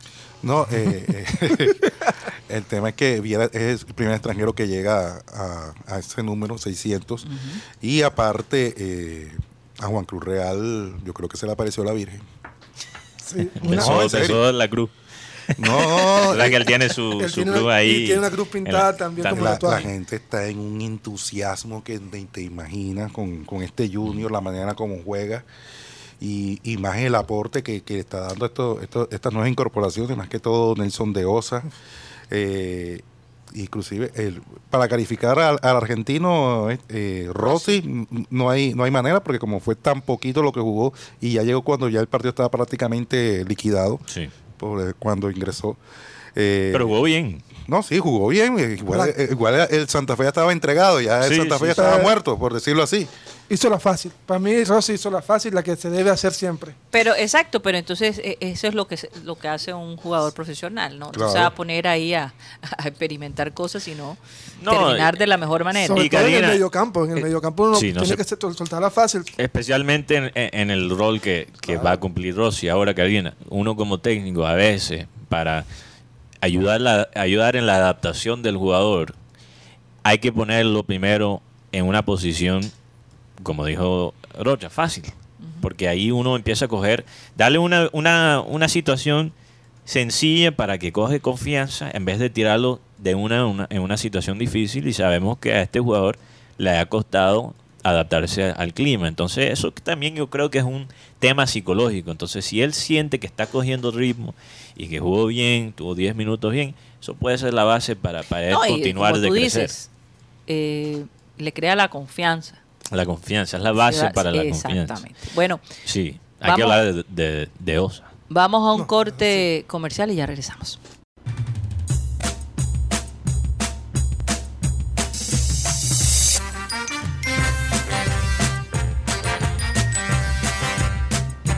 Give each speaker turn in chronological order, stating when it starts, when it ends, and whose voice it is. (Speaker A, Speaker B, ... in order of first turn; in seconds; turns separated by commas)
Speaker A: 0.4-1.9, Speaker A: 2.5-7.2, Speaker B: 7.2-7.6, Speaker A: 7.8-12.2, Speaker C: 13.2-14.4, Speaker A: 13.6-14.4, Speaker D: 13.6-14.9, Speaker D: 15.5-19.9, Speaker A: 15.6-16.6, Speaker C: 17.2-19.9, Speaker A: 19.3-25.4, Speaker A: 26.2-31.7, Speaker A: 32.3-44.0, Speaker A: 44.6-45.8, Speaker A: 46.3-47.0, Speaker D: 46.7-47.4, Speaker A: 47.6-53.1, Speaker D: 51.2-52.0, Speaker C: 51.8-52.1, Speaker C: 53.5-56.8, Speaker B: 56.9-66.1, Speaker A: 61.1-61.5, Speaker D: 64.6-65.2, Speaker C: 65.8-69.3, Speaker D: 65.9-66.6, Speaker D: 67.2-68.2, Speaker D: 69.4-75.7, Speaker C: 71.7-72.0, Speaker D: 76.4-79.1, Speaker D: 80.0-82.7, Speaker D: 83.4-89.3, Speaker D: 89.8-109.7, Speaker B: 108.5-109.9, Speaker B: 110.5-112.6, Speaker D: 112.9-115.0, Speaker B: 113.8-115.6, Speaker D: 115.8-118.1, Speaker B: 116.4-116.8, Speaker B: 118.3-120.8, Speaker C: 118.8-119.4